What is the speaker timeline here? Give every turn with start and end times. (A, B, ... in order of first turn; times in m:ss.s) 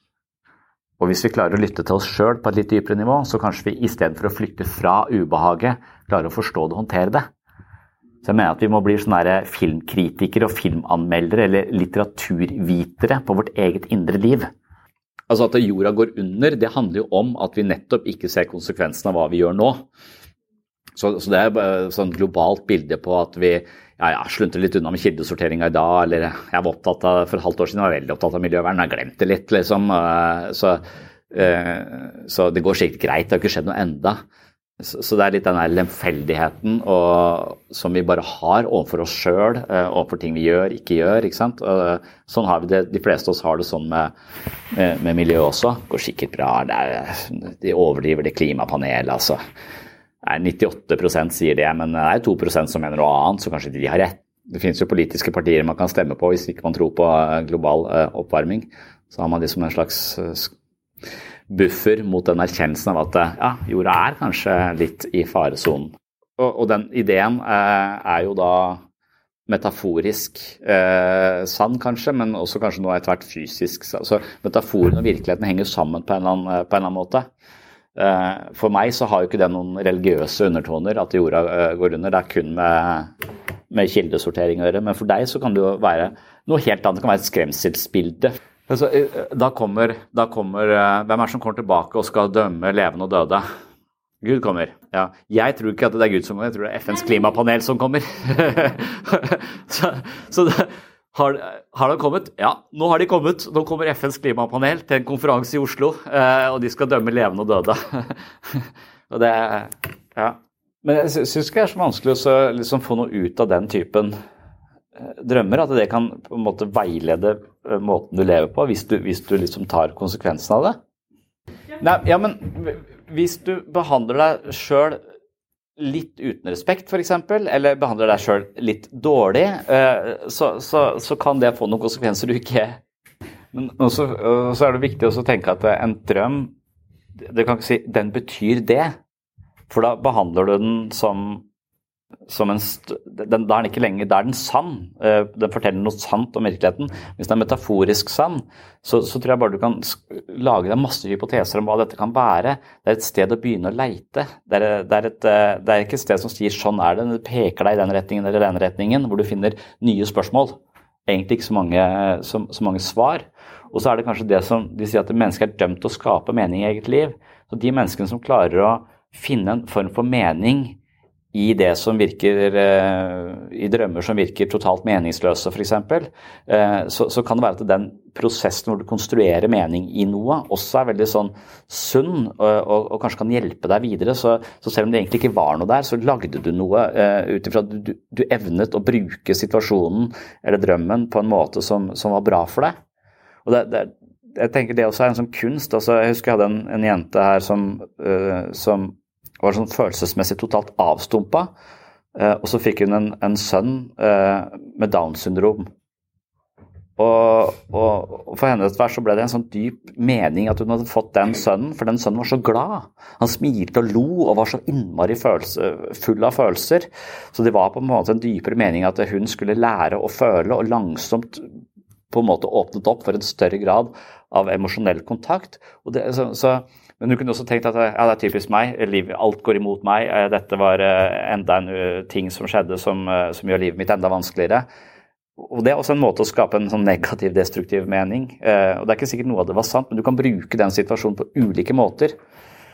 0:01.0-0:07.3 A
0:08.2-0:14.5 A
0:15.3-0:19.8 A
0:21.0-0:34.2 A
0:34.8-0:44.1 A
0:44.7-0:49.4 A
0:50.2-1:00.5 A
1:01.5-1:08.8 A
1:09.5-1:17.3 A
1:17.9-1:23.1 A
1:23.7-1:33.4 A
1:34.2-1:54.1 A
1:55.0-2:00.8 A
2:01.8-2:05.0 A
2:05.8-2:12.8 A
2:13.5-2:16.5 A
2:17.3-2:18.9 A
2:19.7-2:21.4 A
2:22.3-2:50.8 A
2:51.3-3:12.8 A
3:13.4-3:21.5 A
3:22.1-3:25.7 A
3:27.0-3:41.5 A
3:42.1-3:54.6 A
3:55.4-4:02.1 A